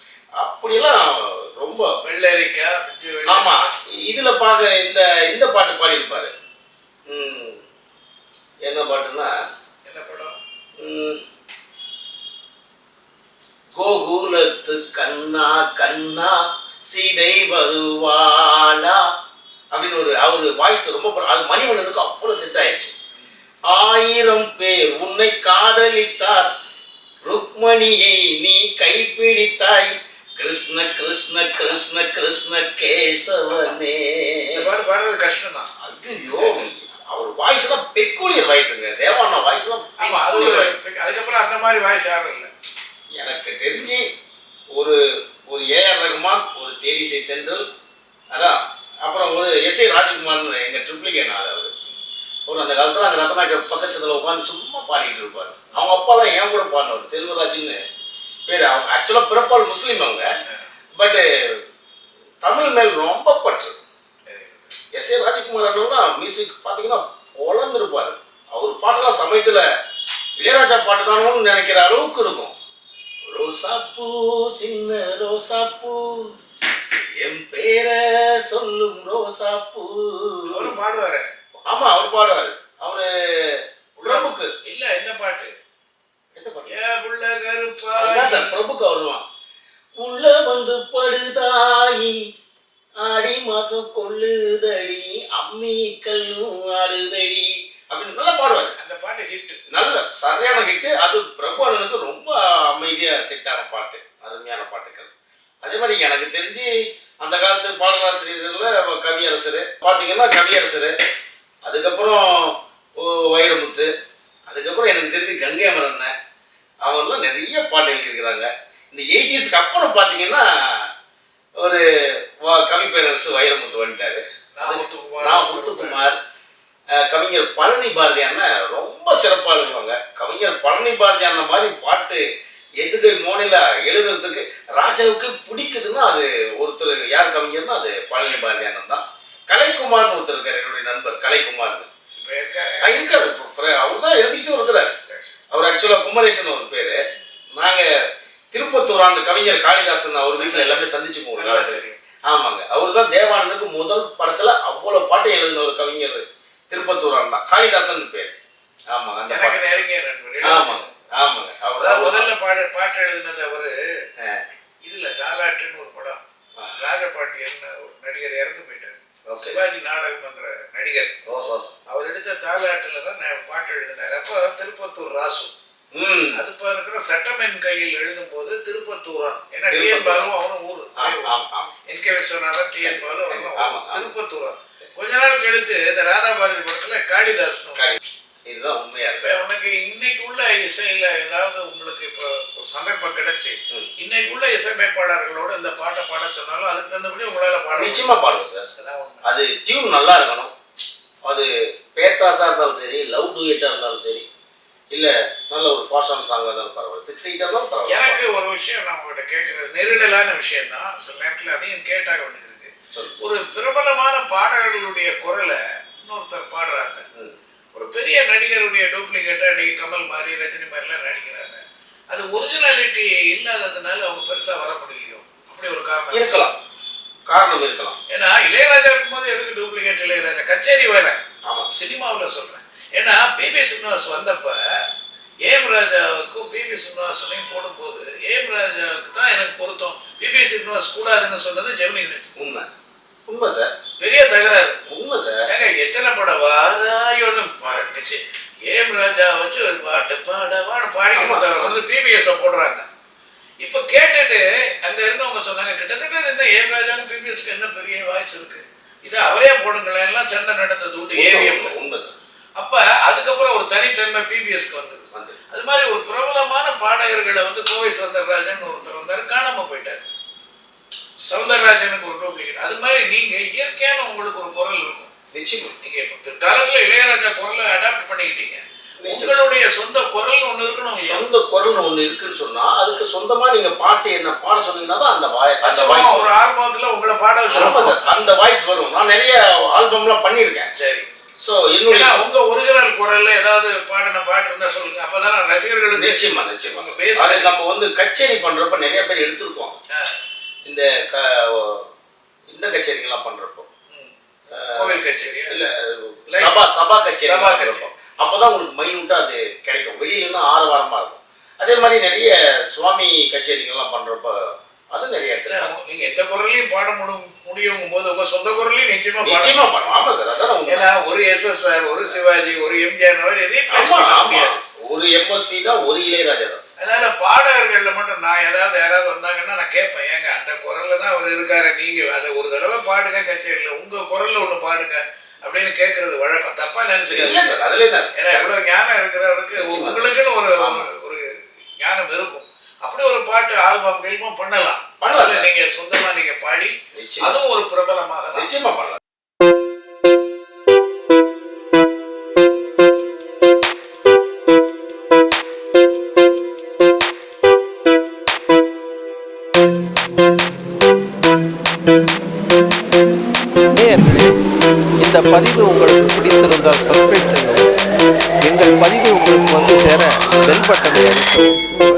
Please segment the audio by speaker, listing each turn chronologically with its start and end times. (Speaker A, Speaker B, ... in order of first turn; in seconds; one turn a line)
Speaker A: 0.4-1.9
Speaker B: 2.0-3.8
Speaker A: 3.3-6.3
Speaker A: 7.1-7.6
Speaker A: 8.6-9.3
Speaker B: 9.8-10.4
Speaker A: 10.8-11.2
Speaker A: 13.8-19.0
Speaker A: 19.7-22.9
Speaker A: 23.7-26.5
Speaker A: 27.2-34.6
Speaker B: 34.5-35.7
Speaker A: 35.8-40.8
Speaker B: 36.4-36.7
Speaker B: 40.0-42.5
Speaker A: 43.2-44.0
Speaker A: 44.7-47.6
Speaker A: 48.3-51.7
Speaker A: 52.5-57.8
Speaker A: 58.5-60.3
Speaker A: 61.0-61.6
Speaker A: 62.4-63.8
Speaker B: 64.3-64.7
Speaker A: 64.9-69.6
Speaker A: 70.4-72.5
Speaker A: 73.3-76.3
Speaker A: 77.2-80.7
Speaker B: 80.5-81.3
Speaker A: 81.7-84.5
Speaker B: 84.0-85.5
Speaker A: 86.3-86.7
Speaker B: 86.7-88.6
Speaker A: 88.0-89.2
Speaker A: 90.0-92.2
Speaker A: 93.0-98.8
Speaker B: 98.8-99.6
Speaker A: 99.7-105.1
Speaker A: 105.6-106.7
Speaker A: 107.2-110.9
Speaker A: 111.7-113.9
Speaker A: 114.5-116.1
Speaker A: 116.8-120.9
Speaker A: 121.6-126.2
Speaker B: 124.5-126.1
Speaker A: 127.0-132.2
Speaker A: 132.8-141.9
Speaker B: 142.2-143.1
Speaker A: 142.8-144.9
Speaker B: 145.1-145.3
Speaker A: 145.5-147.0
Speaker A: 147.6-147.9
Speaker A: 148.5-158.3
Speaker B: 150.4-150.8
Speaker B: 151.4-152.0
Speaker A: 158.9-159.8
Speaker B: 159.3-161.0
Speaker A: 160.4-162.3
Speaker B: 161.8-163.8
Speaker B: 164.8-166.2
Speaker B: 166.8-171.1
Speaker A: 169.3-169.6
Speaker A: 171.3-171.7
Speaker B: 171.9-175.5
Speaker A: 175.9-176.4
Speaker B: 176.3-181.3
Speaker A: 179.7-180.3
Speaker A: 181.0-181.7
Speaker B: 181.9-187.8
Speaker A: 182.8-184.1
Speaker A: 187.8-189.2
Speaker B: 189.2-198.1
Speaker A: 197.7-198.7
Speaker B: 198.8-199.2
Speaker A: 199.2-200.5
Speaker A: 201.2-204.2
Speaker A: 204.9-208.2
Speaker B: 207.9-217.1
Speaker A: 212.9-213.2
Speaker B: 217.7-226.4
Speaker A: 226.1-226.6
Speaker A: 227.3-228.0
Speaker B: 228.1-234.6
Speaker A: 231.4-231.7
Speaker B: 235.4-242.3
Speaker A: 242.4-242.7
Speaker A: 243.3-243.7
Speaker B: 244.0-244.8
Speaker A: 244.9-245.5
Speaker B: 245.5-252.9
Speaker A: 251.1-251.8
Speaker B: 253.6-261.8
Speaker A: 261.1-262.2
Speaker B: 262.6-270.1
Speaker A: 265.1-265.4
Speaker B: 271.2-275.1
Speaker A: 275.3-275.8
Speaker B: 275.8-281.3
Speaker A: 279.0-279.4
Speaker A: 280.9-286.3
Speaker B: 285.6-288.1
Speaker A: 287.5-290.7
Speaker B: 290.8-291.1
Speaker A: 291.4-292.3
Speaker B: 291.9-297.6
Speaker A: 295.9-299.8
Speaker B: 299.9-300.2
Speaker A: 300.7-301.9
Speaker A: 302.5-303.7
Speaker A: 304.5-314.4
Speaker B: 304.7-305.6
Speaker B: 306.3-306.6
Speaker B: 307.3-307.9
Speaker A: 314.9-315.7
Speaker B: 315.5-320.1
Speaker A: 319.2-320.9
Speaker B: 320.6-324.6
Speaker A: 323.7-326.7
Speaker B: 326.8-337.6
Speaker A: 337.1-338.5
Speaker B: 338.1-348.5
Speaker A: 339.6-340.9
Speaker A: 345.0-345.5
Speaker A: 346.9-347.5
Speaker A: 348.3-349.0
Speaker C: 363.8-364.4
Speaker C: 365.0-367.7
Speaker C: 368.4-371.6